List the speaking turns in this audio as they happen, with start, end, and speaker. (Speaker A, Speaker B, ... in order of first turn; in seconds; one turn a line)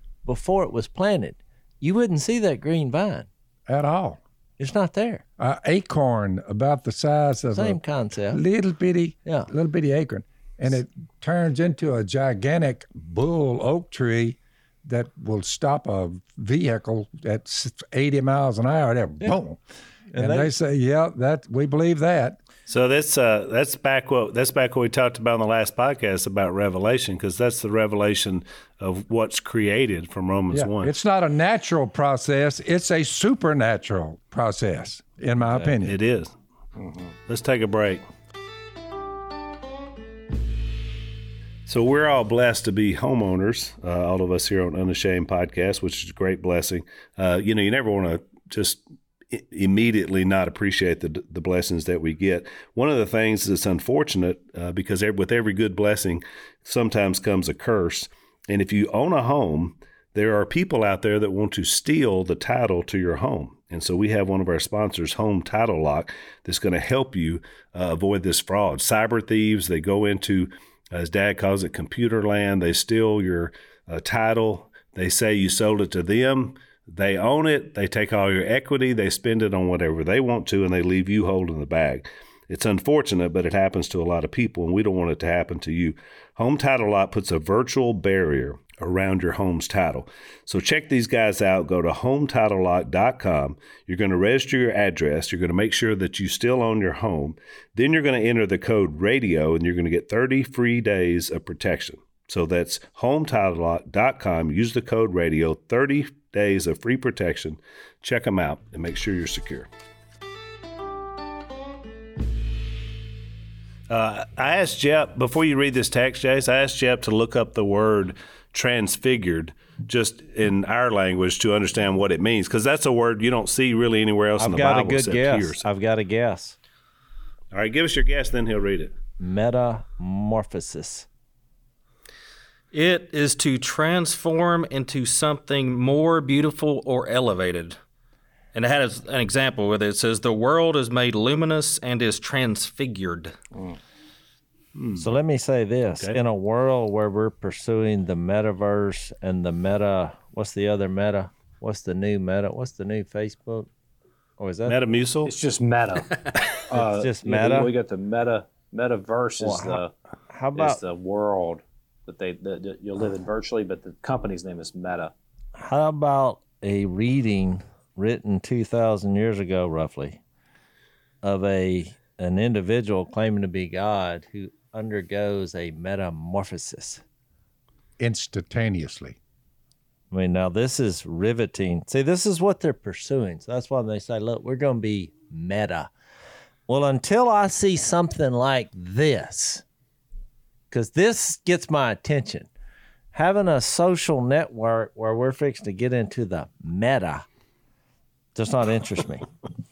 Speaker A: 0.2-3.3
Speaker B: 3.7-4.2
Speaker A: 4.6-5.2
Speaker B: 5.4-7.8
Speaker A: 7.5-8.4
Speaker B: 8.3-19.6
Speaker A: 20.1-20.5
Speaker B: 20.2-22.4
Speaker C: 22.7-30.9
Speaker B: 30.5-36.0
Speaker C: 35.5-36.3
Speaker D: 36.8-37.1
Speaker C: 37.3-38.0
Speaker C: 41.7-109.7
Speaker C: 113.9-125.6
Speaker A: 124.4-126.6
Speaker C: 127.5-129.0
Speaker A: 129.2-131.1
Speaker E: 132.7-137.8
Speaker E: 138.5-143.4
Speaker C: 144.8-145.1
Speaker A: 145.0-153.7
Speaker A: 154.4-154.8
Speaker C: 154.7-155.3
Speaker D: 155.3-159.9
Speaker A: 156.7-157.7
Speaker A: 159.4-160.8
Speaker D: 160.6-165.1
Speaker A: 165.6-170.2
Speaker A: 171.2-177.0
Speaker B: 178.0-179.2
Speaker A: 180.1-185.9
Speaker A: 186.7-189.6
Speaker A: 190.7-192.5
Speaker A: 193.1-197.2
Speaker A: 198.3-199.3